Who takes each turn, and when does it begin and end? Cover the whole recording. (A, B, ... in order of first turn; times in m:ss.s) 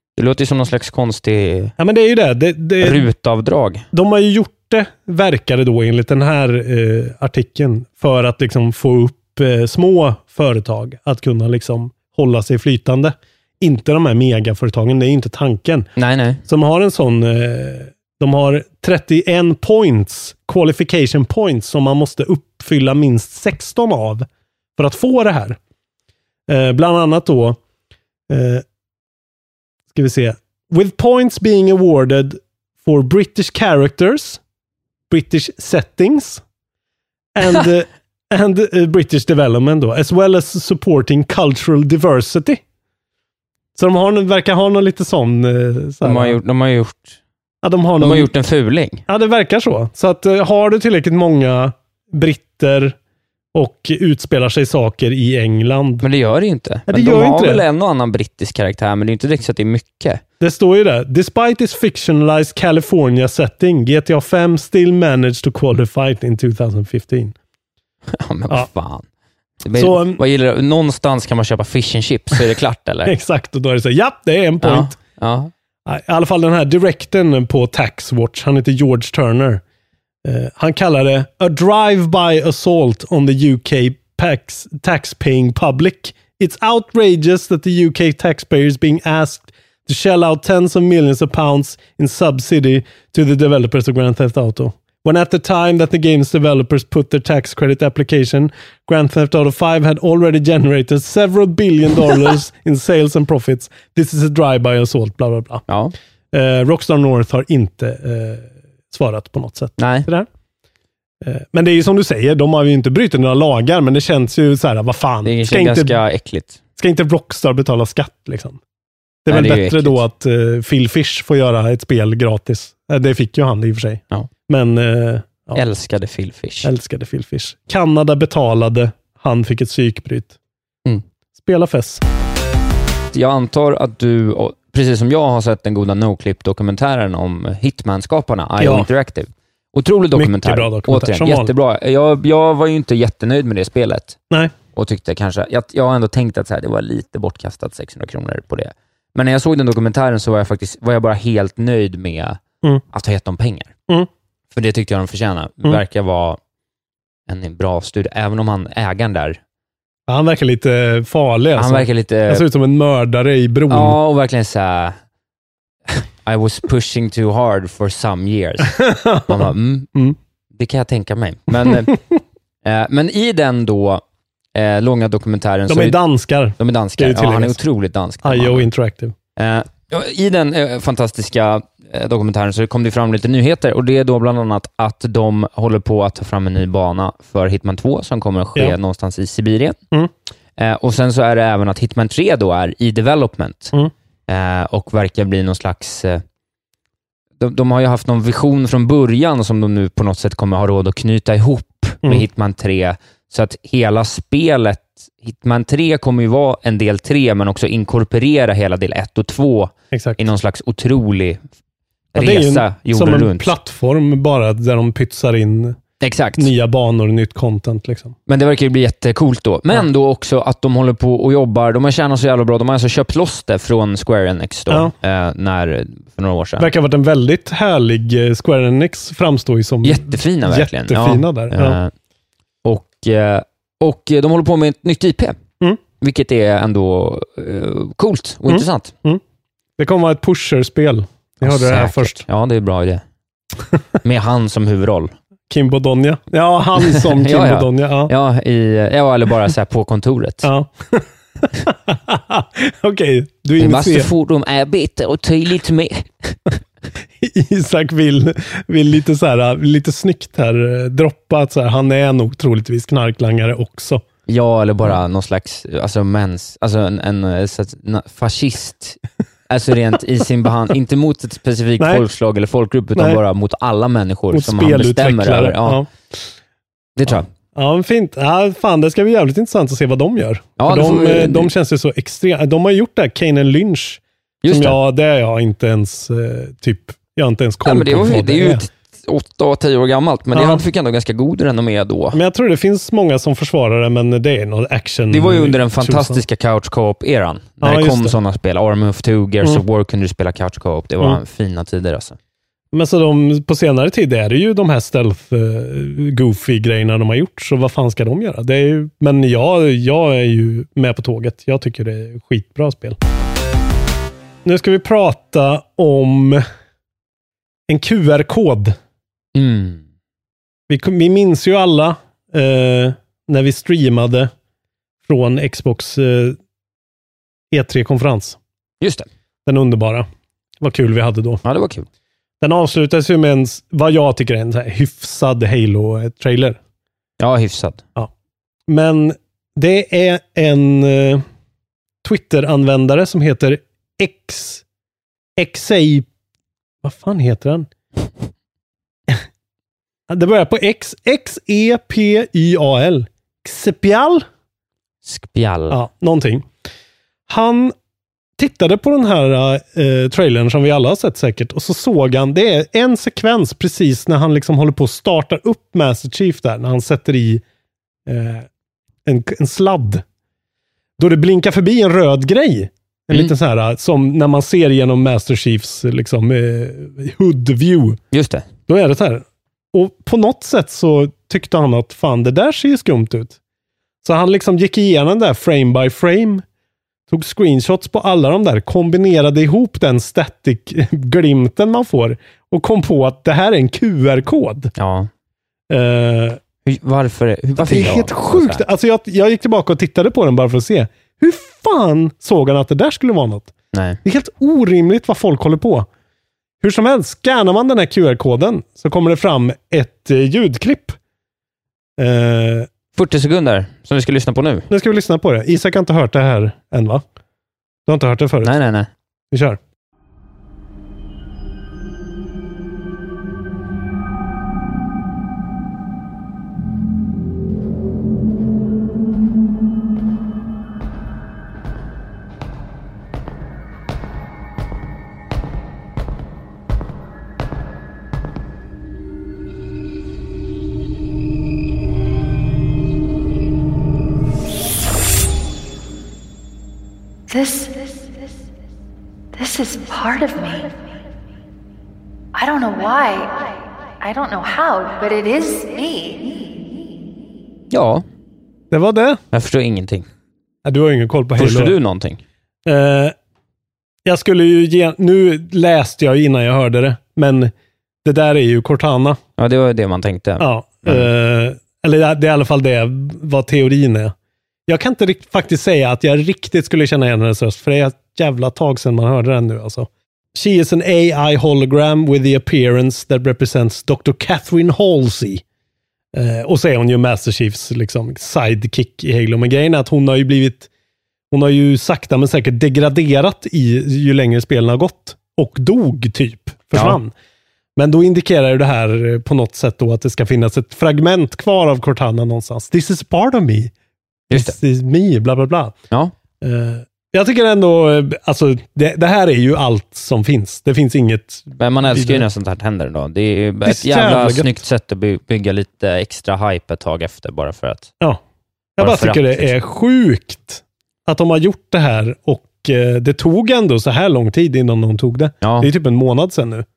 0:00.2-0:01.7 A
0:01.8-0:03.1 B
0:02.8-0:03.8 A
0:03.9-0:15.9 B
0:16.0-0:16.4 A
0:16.4-0:25.6 B
0:26.5-0:27.6 B
0:28.3-0:28.6 B
0:29.9-0:34.4 B
0:35.1-0:36.4 B
0:37.4-0:42.6 B
0:43.8-0:46.4 B
0:46.0-0:47.2 A
0:47.6-0:48.3 B
0:48.0-0:49.0 A
0:49.1-0:53.0 B
0:53.5-0:56.0 B
0:56.0-1:00.2 A
0:56.9-0:57.6 B
1:00.4-1:07.3 B
1:08.1-1:09.0 A
1:09.6-1:13.1 A
1:09.8-1:10.2 B
1:13.0-1:15.0 B
1:14.6-1:15.5 A
1:15.8-1:19.6 B
1:20.2-1:45.6 B
1:45.7-1:45.9 A
1:46.3-1:50.3 B
1:49.8-1:50.1 A
1:51.2-1:56.0 B
1:55.2-1:56.6 A
1:56.8-1:58.6 B
1:59.2-2:05.6 B
1:59.3-2:00.0 A
2:05.5-2:06.7 A
2:06.6-2:10.4 B
2:11.4-2:12.0 B
2:13.1-2:24.2 A
2:18.6-2:18.9 B
2:20.1-2:21.5 B
2:24.7-2:32.4 A
2:32.9-2:33.7 A
2:34.5-2:36.4 A
2:37.3-2:39.4 A
2:40.1-2:44.0 B
2:41.6-2:42.4 A
2:43.7-2:45.0 A
2:45.9-2:49.9 A
2:48.7-2:50.2 B
2:50.6-2:52.0 A
2:51.6-2:52.0 B
2:52.6-2:54.0 A
2:54.5-2:56.0 A
2:55.7-2:57.6 B
2:56.6-2:58.7 A
2:58.2-2:59.1 B
2:59.4-3:09.8 A
3:10.6-3:13.7 A
3:14.3-3:16.2 A
3:17.4-3:31.4 A
3:29.9-3:30.2 B
3:32.1-3:33.5 A
3:32.2-3:35.8 B
3:36.0-3:36.5 A
3:36.4-3:38.2 B
3:38.3-3:46.7 A
3:44.7-3:44.9 B
3:46.6-3:51.8 B
3:49.8-3:51.9 A
3:52.6-3:55.4 A
3:56.0-3:58.9 A
3:58.5-3:59.2 B
3:59.8-4:02.2 B
4:01.4-4:03.0 A
4:04.0-4:05.1 A
4:05.5-4:08.1 B
4:06.8-4:10.5 A
4:10.4-4:14.1 B
4:13.6-4:16.4 A
4:17.2-4:24.0 B
4:24.3-4:35.8 A
4:31.8-4:32.0 B
4:32.9-4:33.2 B
4:34.3-4:35.9 B
4:37.0-4:37.3 A
4:37.1-4:48.6 B
4:40.6-4:41.5 A
4:44.4-4:44.8 A
4:47.6-4:52.2 A
4:50.3-4:50.6 B
4:52.1-4:56.2 B
4:55.1-5:02.2 A
4:57.6-4:58.2 B
5:02.7-5:13.0 B
5:14.4-5:16.4 B
5:17.7-5:18.8 B
5:19.3-5:19.8 A
5:20.7-5:24.3 B
5:25.0-5:26.4 B
5:27.5-5:28.4 B
5:28.8-5:29.1 A
5:29.4-5:30.1 B
5:30.6-5:31.4 B
5:31.4-5:31.9 A
5:32.4-5:36.6 B
5:37.2-5:37.8 A
5:38.7-5:41.2 B
5:42.0-5:44.6 B
5:45.4-5:46.0 B
5:46.8-5:47.7 B
5:50.1-5:54.2 B
5:55.0-5:55.8 A
5:55.7-5:56.5 B
5:57.3-5:57.7 B
5:58.4-6:07.4 B
6:08.0-6:08.5 B
6:09.0-6:10.0 B
6:11.0-6:18.0 B
6:18.1-6:18.4 A
6:18.7-6:23.4 B
6:24.0-6:26.4 B
6:27.1-6:34.7 B
6:34.8-6:35.1 A
6:35.7-6:36.4 B
6:36.6-6:38.6 A
6:37.6-6:43.5 B
6:43.7-6:44.0 A
6:44.0-6:45.9 B
6:46.6-6:51.0 B
6:52.0-6:52.7 B
6:52.9-6:54.7 A
6:54.7-6:57.0 B
6:57.8-6:58.5 B
6:58.4-6:58.9 A
6:59.3-6:59.6 B
7:27.3-7:28.4 C
7:29.3-7:30.9 C
7:32.3-7:36.6 C
7:37.7-7:38.0 A
7:38.7-7:39.2 B
7:39.3-7:40.0 A
7:40.6-7:41.8 B
7:41.4-7:42.2 A
7:42.6-7:43.1 B
7:44.0-7:47.5 B
7:48.0-7:49.2 B
7:49.4-7:51.1 A
7:50.4-7:54.1 B
7:54.7-8:05.4 B
8:06.1-8:10.7 B
8:11.3-8:17.1 B
8:16.7-8:17.0 A
8:17.8-8:23.7 B
8:24.3-8:24.6 A
8:24.3-8:25.8 B
8:26.4-8:32.2 B
8:31.6-8:37.9 A
8:33.6-8:34.6 B
8:38.8-8:46.6 B
8:38.8-8:39.5 A
8:45.4-8:45.7 A